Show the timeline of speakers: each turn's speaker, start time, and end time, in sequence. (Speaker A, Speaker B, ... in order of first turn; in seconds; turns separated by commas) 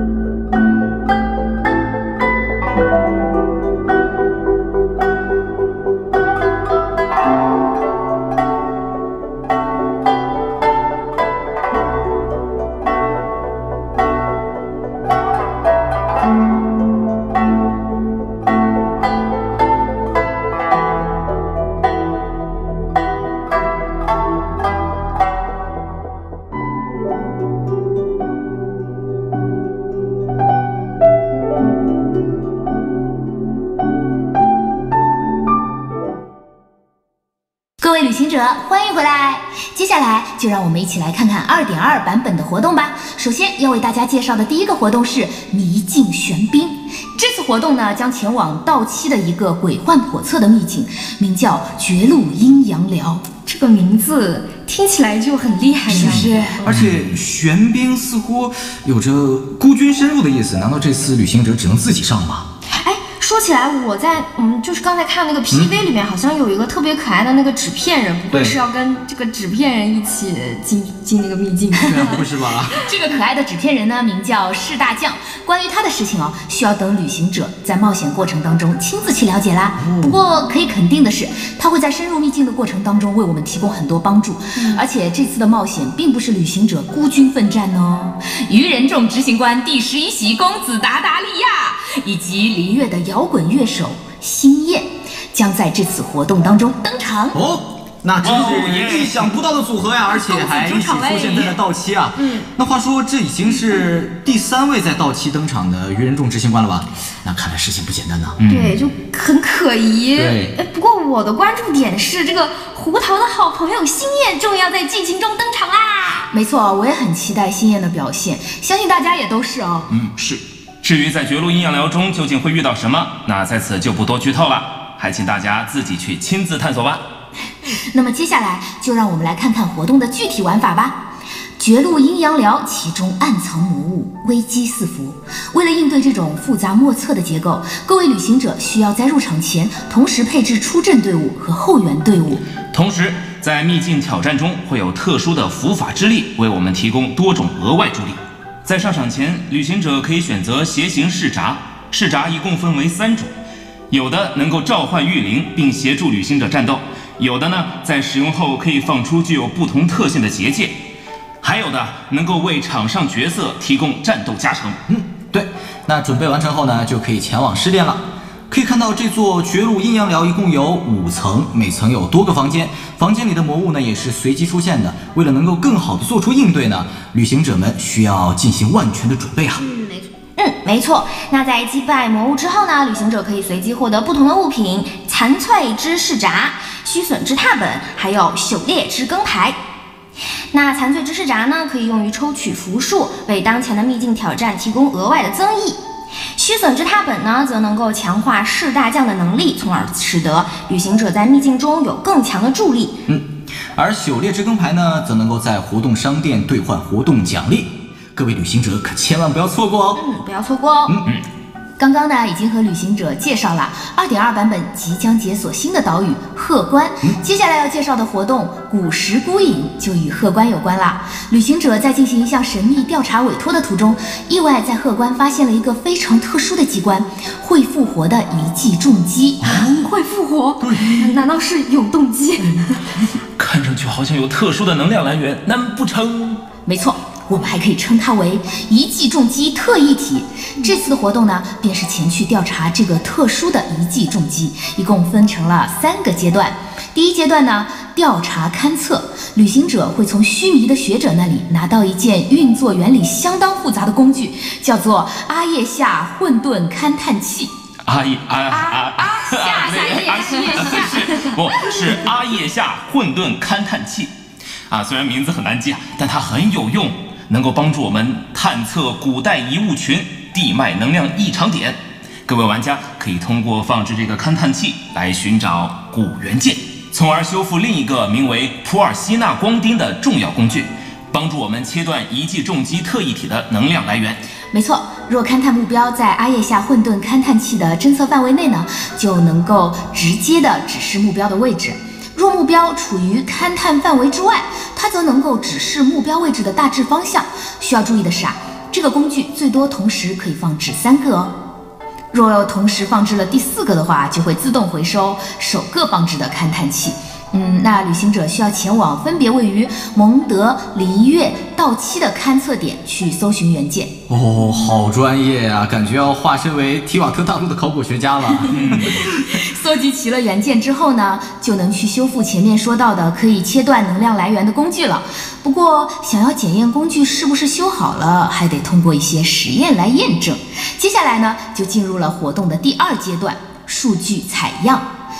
Speaker A: 37.8-53.3, Speaker B: 53.4-56.6, Speaker A: 55.9-56.6, Speaker C: 55.9-62.5, Speaker D: 56.7-57.0, Speaker B: 62.7-72.3, Speaker C: 65.5-65.8, Speaker C: 68.3-68.6, Speaker C: 71.8-72.8, Speaker A: 72.8-97.4, Speaker C: 79.8-80.2, Speaker B: 84.5-84.8, Speaker C: 97.3-108.8, Speaker D: 98.2-99.3, Speaker A: 100.3-101.5, Speaker B: 100.8-101.3, Speaker B: 108.5-116.3, Speaker C: 110.1-110.5, Speaker A: 116.3-119.9, Speaker D: 119.9-127.0, Speaker A: 127.9-131.0, Speaker A: 131.6-142.4, Speaker D: 142.7-153.3, Speaker D: 153.9-160.8, Speaker D: 161.4-164.8, Speaker C: 164.9-179.6, Speaker B: 179.7-189.6, Speaker B: 190.5-195.8, Speaker B: 196.3-202.9, Speaker C: 203.1-210.0, Speaker B: 209.9-211.0, Speaker A: 211.8-229.4, Speaker C: 229.4-229.8, Speaker B: 229.4-232.9, Speaker C: 230.6-231.2, Speaker D: 233.4-236.4, Speaker A: 236.7-257.5, Speaker D: 257.9-264.1, Speaker A: 258.5-261.3, Speaker B: 260.4-261.3, Speaker D: 264.7-284.2, Speaker A: 284.5-301.3, Speaker A: 302.1-313.9, Speaker C: 314.1-319.2, Speaker D: 318.5-319.1, Speaker A: 319.3-334.9